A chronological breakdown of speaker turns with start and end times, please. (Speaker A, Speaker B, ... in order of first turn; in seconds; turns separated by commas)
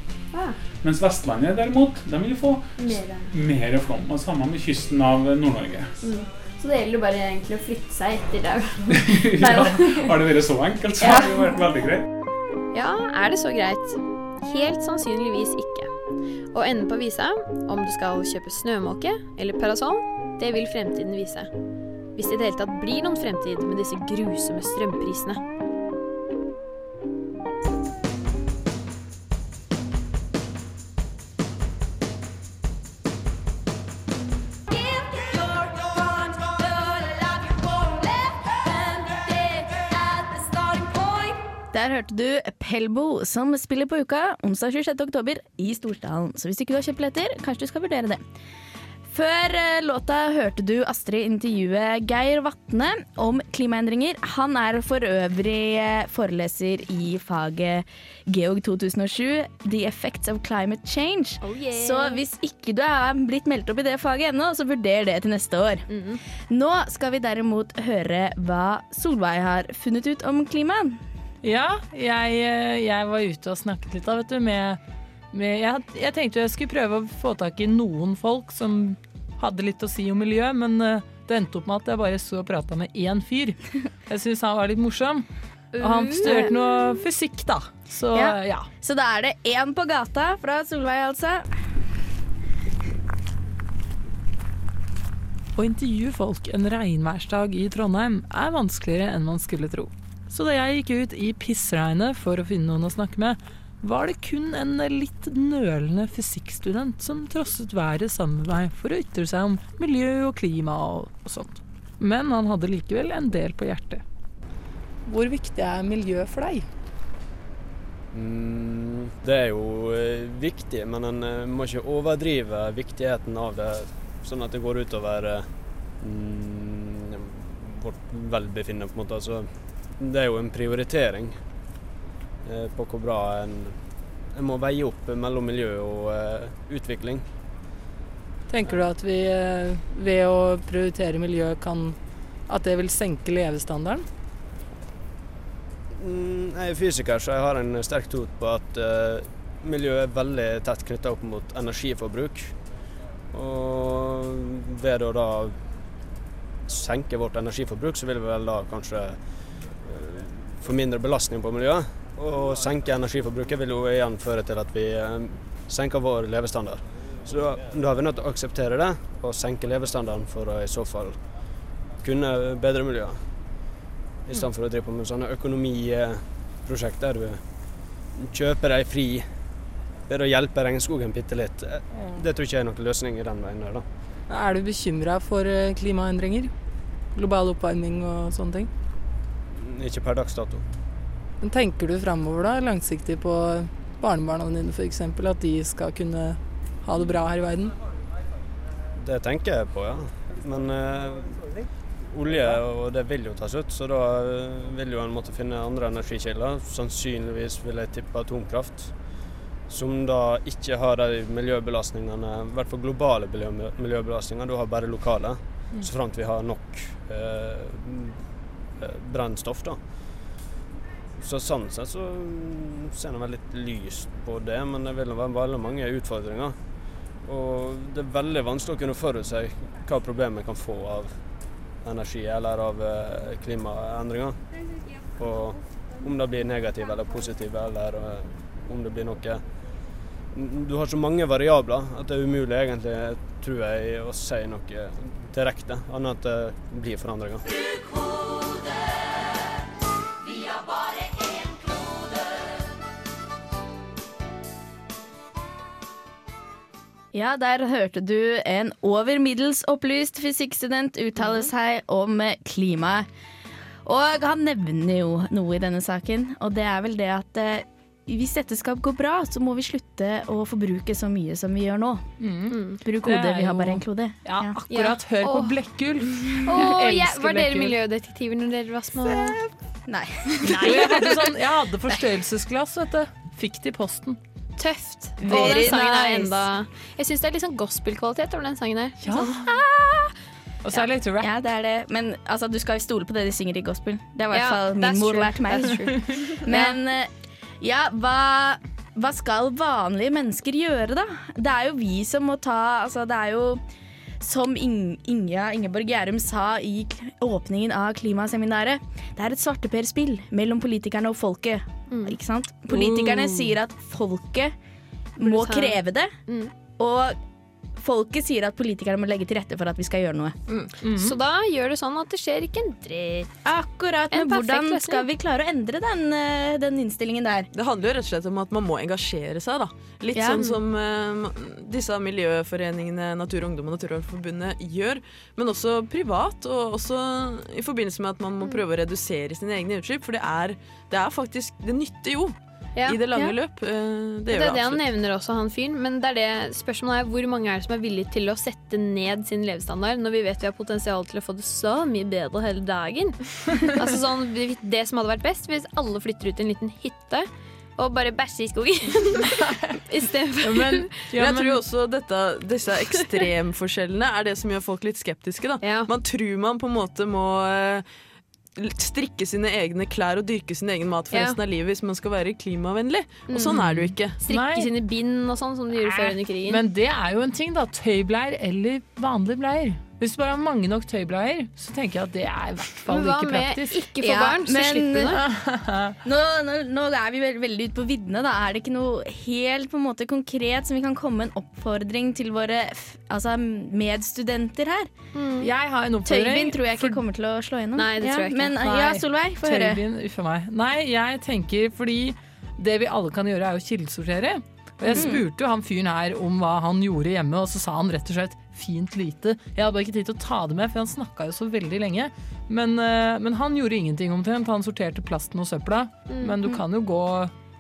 Speaker A: 0.8-6.0, Speaker B: 2.8-3.3, Speaker B: 6.0-10.1, Speaker A: 8.9-12.1, Speaker B: 11.0-11.3, Speaker B: 12.7-15.9, Speaker B: 16.5-21.5, Speaker B: 22.1-25.4, Speaker B: 34.7-41.4, Speaker C: 41.7-48.2, Speaker C: 49.1-65.9, Speaker B: 61.4-62.2, Speaker B: 65.9-66.2, Speaker C: 66.5-71.0, Speaker D: 71.4-74.8, Speaker D: 75.3-85.3, Speaker B: 85.7-86.7, Speaker D: 85.8-88.7, Speaker C: 88.1-91.5, Speaker D: 95.6-114.0, Speaker D: 115.1-116.7, Speaker E: 118.1-131.4, Speaker E: 132.4-133.8, Speaker E: 134.3-137.2, Speaker D: 138.5-142.0, Speaker D: 142.5-144.1, Speaker E: 145.9-152.6, Speaker E: 153.3-155.6, Speaker E: 156.7-171.3, Speaker E: 172.0-173.2, Speaker E: 174.3-177.4, Speaker E: 178.2-179.3, Speaker E: 180.1-183.8, Speaker D: 181.9-182.2, Speaker D: 184.3-186.5, Speaker D: 187.2-188.7, Speaker E: 189.6-190.6, Speaker D: 191.4-197.8, Speaker E: 199.0-201.5, Speaker E: 202.1-208.9, Speaker E: 209.7-218.2, Speaker E: 218.8-219.8, Speaker E: 221.2-226.6, Speaker E: 227.2-231.2, Speaker E: 231.8-234.4, Speaker E: 235.2-239.4, Speaker E: 240.3-247.4, Speaker C: 257.1-263.1, Speaker C: 263.9-272.1, Speaker D: 272.2-277.8, Speaker B: 272.5-272.8, Speaker C: 272.8-274.6, Speaker B: 274.7-275.5, Speaker B: 276.4-279.4, Speaker D: 279.0-279.4, Speaker C: 279.9-281.1, Speaker D: 280.4-284.2, Speaker B: 284.6-290.1, Speaker C: 285.2-286.3, Speaker D: 285.2-286.2, Speaker D: 289.0-289.6, Speaker D: 290.6-291.3, Speaker C: 291.2-303.6, Speaker B: 294.3-296.7, Speaker C: 304.2-314.5, Speaker B: 311.9-312.2, Speaker B: 312.7-313.5, Speaker C: 315.2-316.1, Speaker B: 315.2-316.5, Speaker C: 316.8-317.2, Speaker C: 317.8-320.4, Speaker F: 320.5-320.7, Speaker D: 320.8-321.2, Speaker B: 320.9-323.3, Speaker C: 323.4-327.5, Speaker B: 324.1-325.1, Speaker F: 327.5-344.9, Speaker C: 330.1-330.4, Speaker B: 342.8-343.0, Speaker B: 344.3-361.1, Speaker D: 360.4-361.6, Speaker F: 361.1-367.9, Speaker B: 365.6-365.9, Speaker F: 368.6-374.2, Speaker B: 371.1-371.4, Speaker B: 373.3-373.6, Speaker D: 373.5-374.7, Speaker B: 374.2-376.6, Speaker D: 376.4-383.8, Speaker B: 382.9-385.2, Speaker C: 384.0-385.2, Speaker D: 385.1-386.0, Speaker C: 386.0-394.9, Speaker B: 395.1-395.5, Speaker D: 395.4-397.0, Speaker C: 396.1-399.8, Speaker B: 397.8-398.6, Speaker D: 398.6-417.3, Speaker B: 404.9-405.1, Speaker C: 404.9-405.2